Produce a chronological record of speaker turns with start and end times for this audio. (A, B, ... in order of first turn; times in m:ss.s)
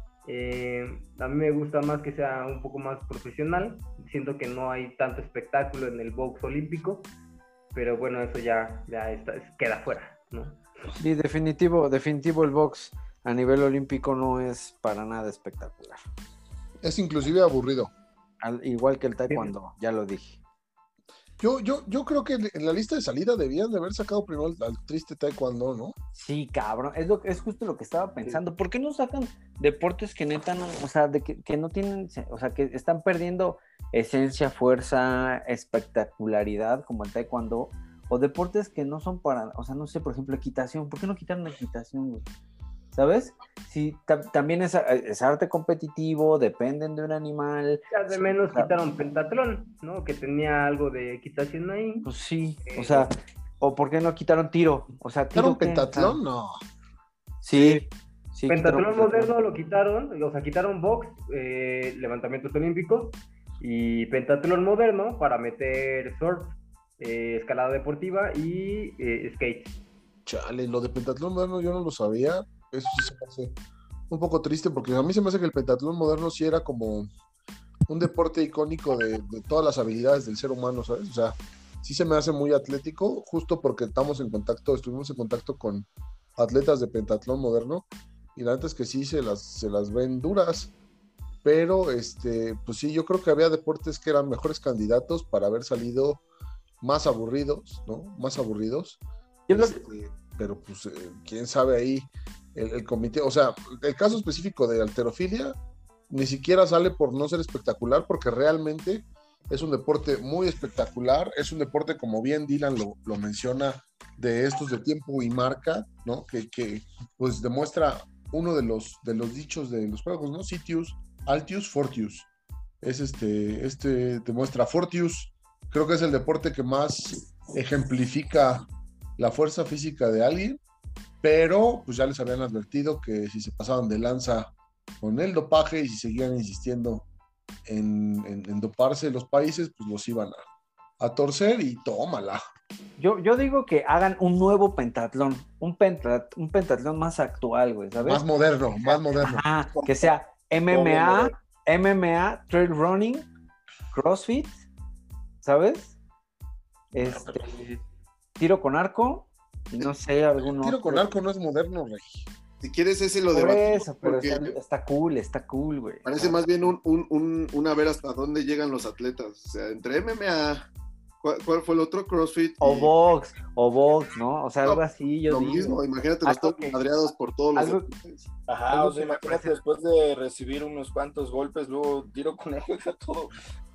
0:00.2-0:07.1 A
0:07.7-0:10.6 A
0:11.0-0:16.0 B
0:16.8-0:17.9 C
0:18.4-0:20.4 B
0:21.4-0:25.9 C
0:26.1-0:42.2 B
0:42.9-0:48.7 B
0:47.9-0:52.1 A
0:52.0-0:56.2 B
0:52.7-0:53.1 A
0:55.3-0:56.6 C
0:57.4-0:59.3 B
0:58.5-1:09.7 A
1:10.2-1:13.6 C
1:14.1-1:17.1 C
1:17.9-1:30.7 C
1:31.4-1:36.2 C
1:36.8-1:45.6 C
1:39.5-1:39.8 B
1:46.1-2:02.3 C
2:02.8-2:08.6 C
2:09.2-2:10.6 C
2:11.2-2:17.1 C
2:17.6-2:20.4 C
2:21.0-2:22.4 C
2:23.0-2:28.2 B
2:28.0-2:29.4 C
2:29.2-2:33.3 B
2:30.7-2:31.3 D
2:33.9-2:34.6 B
2:35.4-2:35.9 B
2:36.9-2:37.8 B
2:37.0-2:37.6 C
2:38.4-2:41.1 B
2:40.6-2:42.3 C
2:42.6-2:44.6 E
2:43.3-2:46.4 B
2:46.0-2:50.7 E
2:51.2-2:52.9 E
2:52.6-2:56.8 B
2:54.6-2:58.3 E
2:57.5-2:57.8 B
2:58.5-3:03.3 D
2:58.7-2:59.6 B